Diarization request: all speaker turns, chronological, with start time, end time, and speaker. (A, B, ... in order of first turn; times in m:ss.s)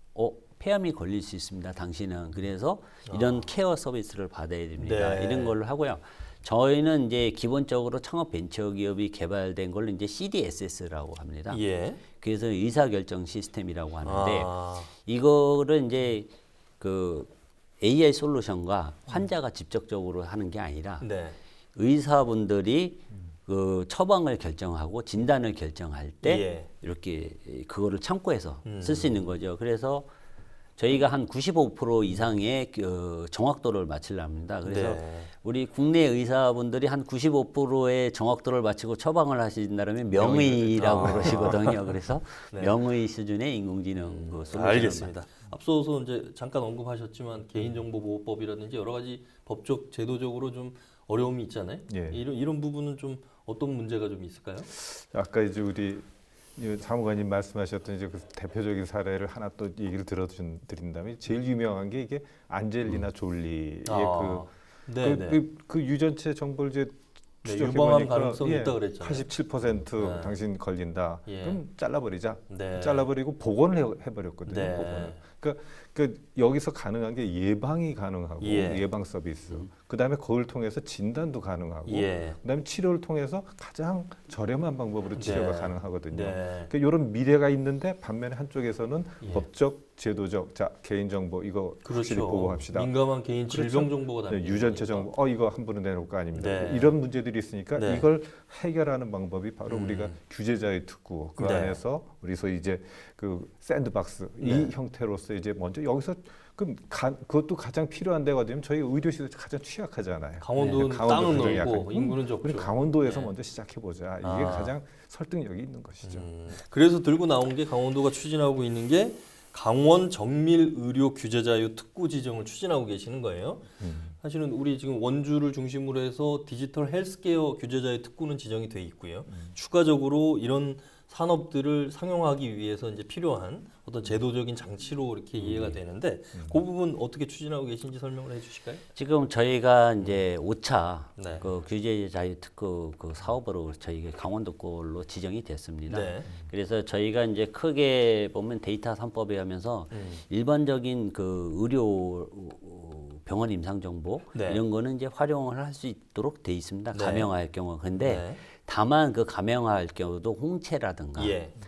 0:00.2-0:11.6 A
0:03.1-0:03.5 B
0:04.8-0:05.6 B
0:11.5-0:12.0 B
0:12.2-0:16.3 A
0:14.0-0:14.9 B
0:16.8-0:21.1 A
0:21.0-0:21.4 B
0:21.8-0:30.1 A
0:26.2-0:26.7 B
0:28.6-0:29.2 B
0:30.8-0:45.1 A
0:34.6-0:35.3 B
0:40.1-0:41.8 B
0:41.0-0:41.5 C
0:42.5-0:42.8 B
0:44.0-0:54.7 B
0:51.9-0:52.2 C
0:54.7-1:32.9 C
1:03.8-1:05.4 B
1:07.4-1:09.3 B
1:10.0-1:10.4 B
1:11.3-1:11.6 B
1:12.5-1:13.1 B
1:14.5-1:15.2 B
1:18.4-1:18.9 B
1:21.9-1:22.4 B
1:25.2-1:26.7 B
1:31.8-1:35.1 B
1:33.5-1:56.3 C
1:36.3-1:37.0 B
1:37.8-1:38.1 B
1:39.7-1:40.2 B
1:41.4-1:41.8 B
1:44.4-1:44.7 B
1:50.4-1:53.3 B
1:54.2-1:54.8 B
1:56.0-2:18.8 B
2:03.8-2:04.2 C
2:09.3-2:09.6 C
2:15.4-2:15.8 A
2:19.0-2:41.4 A
2:21.2-2:21.5 B
2:25.9-2:26.3 B
2:29.9-2:30.2 B
2:34.3-2:34.6 B
2:36.9-2:37.3 B
2:38.0-2:38.4 B
2:41.2-2:41.6 B